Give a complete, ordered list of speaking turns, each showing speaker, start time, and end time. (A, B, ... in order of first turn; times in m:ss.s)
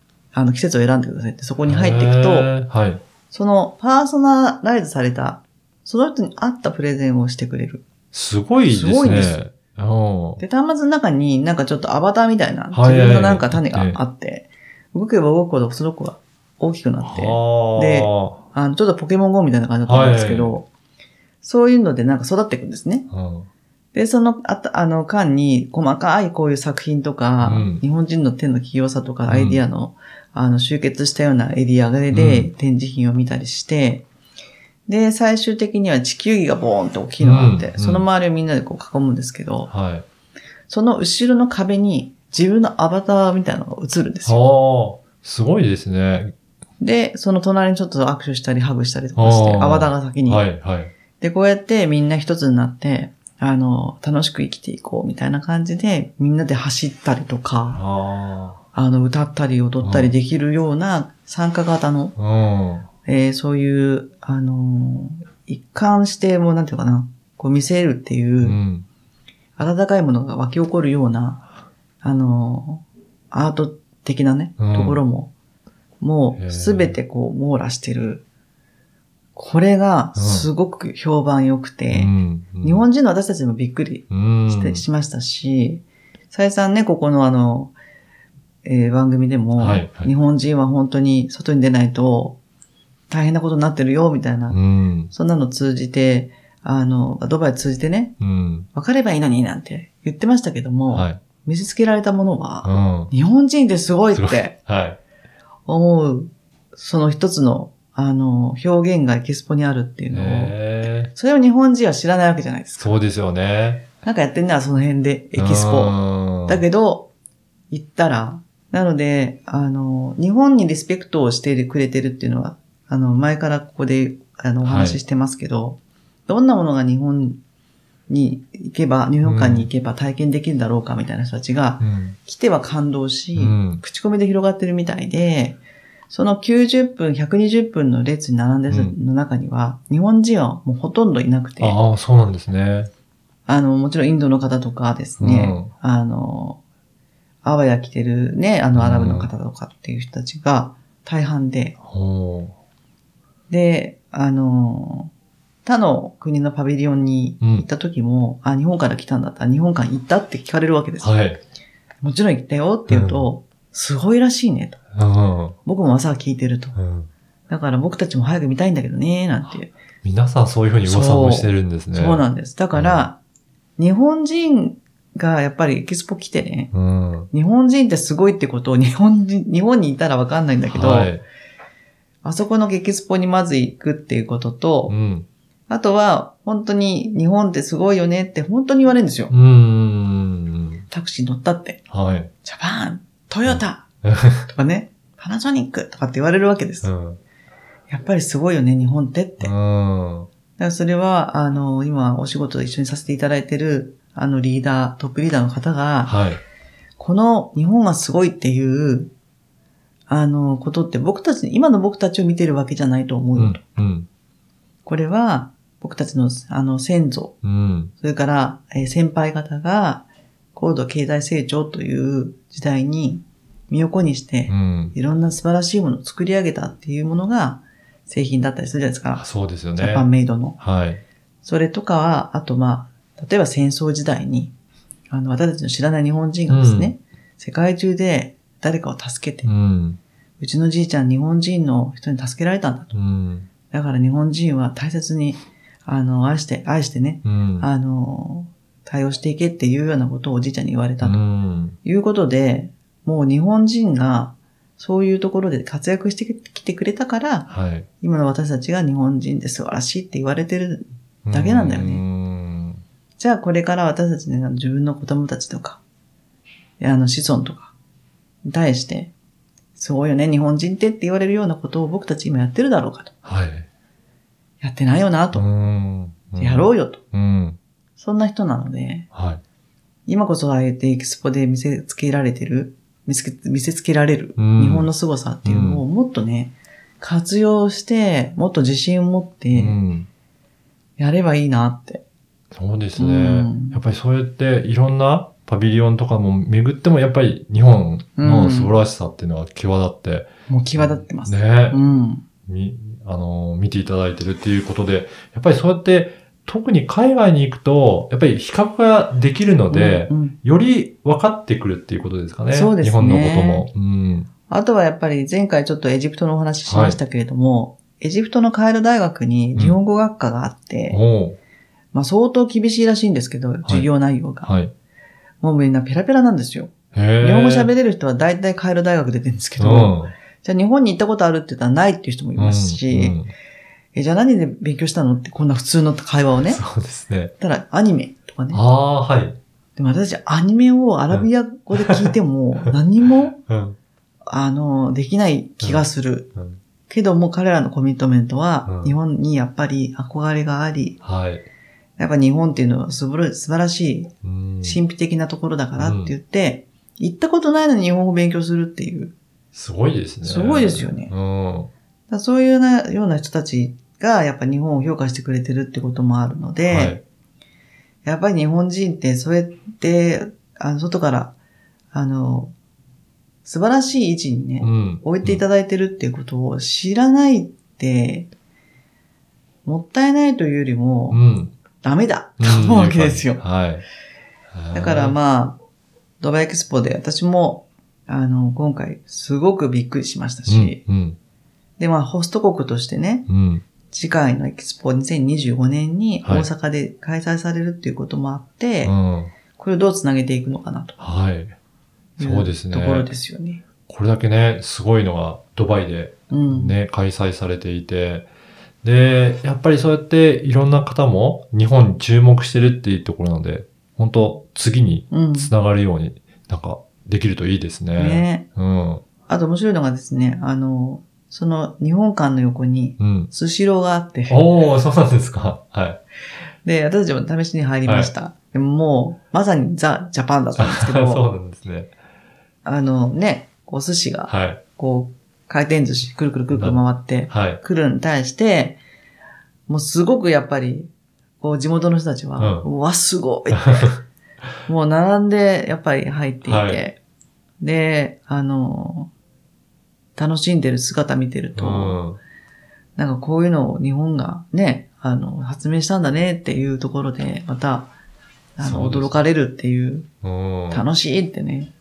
0:00.3-0:02.5 A
0:01.6-0:03.0 B
0:03.3-0:07.8 A
0:08.1-0:10.4 B
0:08.7-0:09.4 A
0:10.4-0:20.7 A
0:12.7-0:14.0 B
0:17.0-0:18.4 B
0:19.8-0:20.6 B
0:21.4-0:23.1 A
0:23.1-0:23.5 B
0:23.9-0:34.0 A
0:27.4-0:27.8 B
0:29.3-0:29.6 B
0:32.1-0:32.5 B
0:34.9-0:39.7 A
0:37.2-0:38.0 B
0:39.7-0:40.0 B
0:40.7-0:44.4 A
0:44.2-0:46.3 B
0:46.8-0:50.4 A
0:49.2-0:50.9 B
0:51.2-0:57.8 A
0:57.7-0:58.6 B
0:58.7-1:02.1 A
0:59.8-1:00.1 B
1:02.2-1:02.9 B
1:03.0-1:08.6 A
1:08.4-1:08.8 B
1:09.6-1:11.4 A
1:12.0-1:15.3 A
1:14.6-1:15.0 B
1:16.0-1:18.2 A
1:16.4-1:17.0 B
1:19.4-1:27.7 A
1:20.1-1:20.5 B
1:21.9-1:22.8 B
1:24.1-1:24.8 B
1:28.6-1:32.4 A
1:29.6-1:30.1 B
1:33.1-1:34.6 A
1:34.5-1:35.1 B
1:35.1-1:38.1 A
1:38.2-1:38.7 B
1:38.7-1:44.6 A
1:40.9-1:41.2 B
1:42.6-1:43.1 B
1:44.1-1:45.0 B
1:45.7-1:53.0 A
1:50.1-1:51.1 B
1:52.8-1:53.8 B
1:54.0-1:57.1 A
1:55.4-1:56.6 B
1:57.7-2:07.4 A
2:04.6-2:05.0 B
2:08.1-2:15.6 A
2:09.2-2:09.7 B
2:11.8-2:12.2 B
2:13.3-2:13.8 B
2:16.1-2:21.8 A
2:18.7-2:19.0 B
2:21.6-2:22.9 B
2:23.5-2:26.6 A
2:25.2-2:25.7 B
2:27.4-2:31.8 A
2:28.7-2:29.3 B
2:31.8-2:32.5 B
2:33.5-2:35.1 A
2:35.6-2:41.1 A
2:37.4-2:37.6 B
2:41.0-2:41.4 B
2:42.0-2:44.8 A
2:42.9-2:43.2 B
2:44.9-2:45.6 B
2:45.6-2:46.8 A
2:46.7-2:47.1 B
2:47.5-2:49.7 A
2:50.0-2:53.1 B
2:50.8-2:53.2 A
2:53.8-2:56.7 A
2:56.7-2:57.3 B
2:57.3-3:01.1 A
3:00.7-3:01.2 B
3:02.2-3:04.9 A
3:04.9-3:05.2 B
3:05.7-3:09.3 A
3:09.3-3:10.8 B
3:10.9-3:11.8 A
3:11.9-3:12.3 B
3:12.4-3:13.8 A
3:13.4-3:14.4 B
3:14.4-3:16.9 A
3:16.8-3:17.2 B
3:17.9-3:19.5 A
3:19.4-3:20.3 B
3:20.6-3:26.1 A
3:26.0-3:26.4 B
3:27.0-3:29.1 A
3:30.1-3:33.6 A
3:33.4-3:34.1 B
3:34.8-3:37.4 A
3:37.4-3:37.9 B
3:38.0-3:50.6 A
3:44.5-3:44.9 B
3:49.1-3:50.1 B
3:50.6-3:51.0 B
3:51.4-3:54.5 A
3:55.1-3:59.5 A
3:56.5-3:56.9 B
3:59.4-4:00.0 B
4:00.4-4:03.0 A
4:02.9-4:03.5 B
4:03.7-4:11.2 A
4:07.2-4:07.7 B
4:11.0-4:11.8 B
4:11.8-4:17.5 A
4:17.5-4:17.9 B
4:18.0-4:22.0 A
4:21.2-4:22.8 B
4:23.2-4:25.8 A
4:26.8-4:27.7 A
4:28.4-4:29.1 A
4:29.8-4:33.1 A
4:33.2-4:33.7 B
4:34.6-4:35.4 A
4:35.3-4:37.6 B
4:36.4-4:37.0 A
4:38.0-4:39.1 A
4:39.1-4:39.4 B
4:40.1-4:49.8 A
4:44.4-4:44.9 B
4:45.4-4:45.8 B
4:49.5-4:50.1 B
4:51.0-4:52.0 A
4:52.5-5:01.8 B
4:53.0-4:53.8 A
4:58.2-4:58.8 A
5:00.5-5:02.2 A
5:02.5-5:14.3 B
5:09.7-5:10.4 A
5:12.5-5:13.6 A
5:14.5-5:21.0 A
5:16.6-5:17.0 B
5:20.9-5:21.4 B
5:21.9-5:24.5 A
5:24.4-5:24.7 B
5:25.4-5:33.2 A
5:26.9-5:27.7 B
5:29.6-5:30.1 B
5:32.4-5:33.3 B
5:33.9-5:36.6 A
5:36.4-5:37.3 B
5:37.4-5:38.6 A
5:38.5-5:39.4 B
5:39.8-5:43.4 A
5:41.1-5:42.7 B
5:43.5-5:43.8 B
5:44.3-5:46.3 A
5:45.6-5:46.6 B
5:46.9-5:51.0 A
5:48.6-5:49.0 B
5:51.0-5:51.5 B
5:52.0-5:54.1 A
5:54.2-5:54.8 B
5:54.6-5:59.1 A
5:55.8-5:56.1 B
5:59.5-6:01.7 B
6:00.2-6:01.1 A
6:02.1-6:07.0 A
6:06.7-6:07.0 B
6:08.0-6:11.3 A
6:11.9-6:12.5 A
6:13.4-6:18.3 A
6:14.6-6:15.4 B
6:19.6-6:21.2 A
6:21.1-6:21.5 B
6:21.8-6:23.4 A
6:22.4-6:23.8 B
6:24.5-6:25.2 B
6:24.7-6:25.6 A
6:26.2-6:30.8 A
6:30.4-6:31.2 B
6:31.8-6:33.3 A
6:33.3-6:33.6 B
6:33.9-6:38.9 A
6:38.8-6:39.3 B
6:39.5-6:41.0 A
6:41.0-6:41.6 B
6:42.2-6:43.1 B
6:42.2-6:43.6 A
6:43.9-6:48.3 B
6:46.3-6:46.8 A
6:48.8-6:59.0 B
6:55.1-6:55.5 A
6:58.0-6:58.4 A
6:59.3-7:04.4 A
7:03.0-7:03.3 B
7:04.3-7:06.0 B
7:06.6-7:11.2 A
7:07.8-7:08.1 B
7:10.6-7:11.9 B
7:12.6-7:18.8 A
7:14.3-7:14.6 B
7:16.5-7:17.6 B
7:19.7-7:20.9 A
7:21.4-7:23.9 A
7:22.4-7:22.7 B
7:23.5-7:24.0 B
7:24.6-7:27.0 A
7:26.4-7:26.8 B
7:27.6-7:29.1 A
7:30.2-7:32.0 A
7:31.6-7:32.2 B
7:33.0-7:37.9 A
7:38.6-7:40.1 A
7:38.6-7:39.2 B
7:40.2-7:40.8 B
7:40.7-7:41.7 A